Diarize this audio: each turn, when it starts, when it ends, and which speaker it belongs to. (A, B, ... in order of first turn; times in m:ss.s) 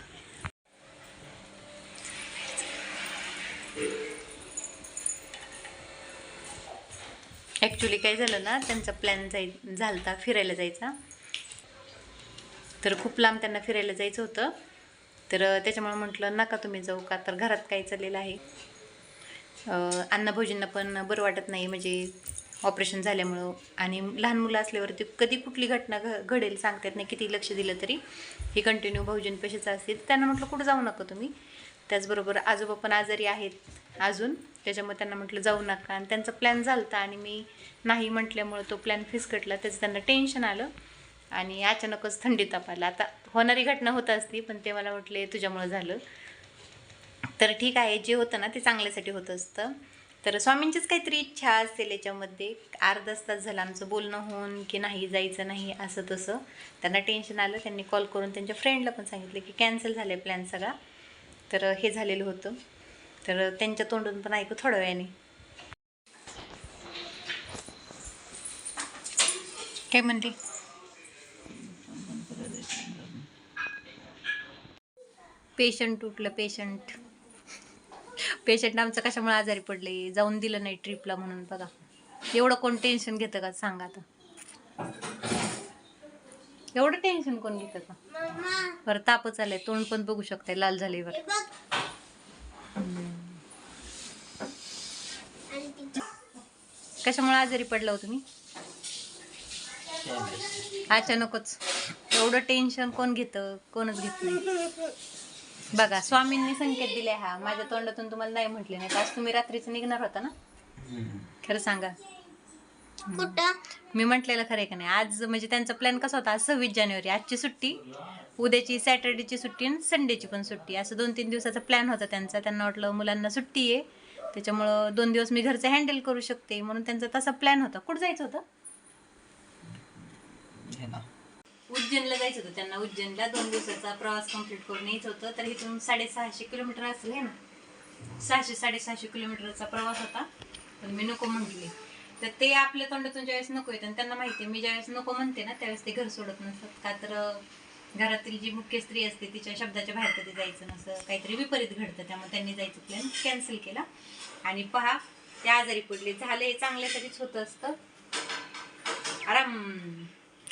0:07.6-0:10.9 A
0:12.8-0:14.5 A
0:15.3-0:18.4 A
0:19.7-0:28.0 A
0:28.5-0:31.3 A
0:31.9-0:40.7 A
0:41.3-0:46.0 A
0:47.4-1:00.8 A
1:01.5-1:02.6 A
1:03.2-1:05.1 A
1:09.9-1:10.4 A
1:11.6-1:13.2 B
1:15.6-1:17.0 A
1:18.2-1:21.7 A
1:22.3-1:24.0 A
1:26.7-1:28.0 A
1:28.1-1:28.8 C
1:28.8-1:31.2 A
1:31.1-1:31.5 C
1:32.8-1:33.4 A
1:35.5-1:36.0 C
1:37.0-1:38.2 A
1:40.0-1:40.8 B
1:40.9-1:44.5 A
1:45.7-1:50.3 A
1:45.7-1:46.0 B
1:50.8-1:51.3 B
1:51.4-1:51.9 A
1:53.1-1:53.4 A
1:53.1-1:53.6 C
1:53.9-1:57.8 A
1:58.4-2:08.4 A
2:10.4-2:11.0 B
2:11.7-2:17.4 A
2:18.2-2:20.3 A
2:20.8-2:33.8 A
2:34.4-2:37.8 A
2:39.3-2:40.1 A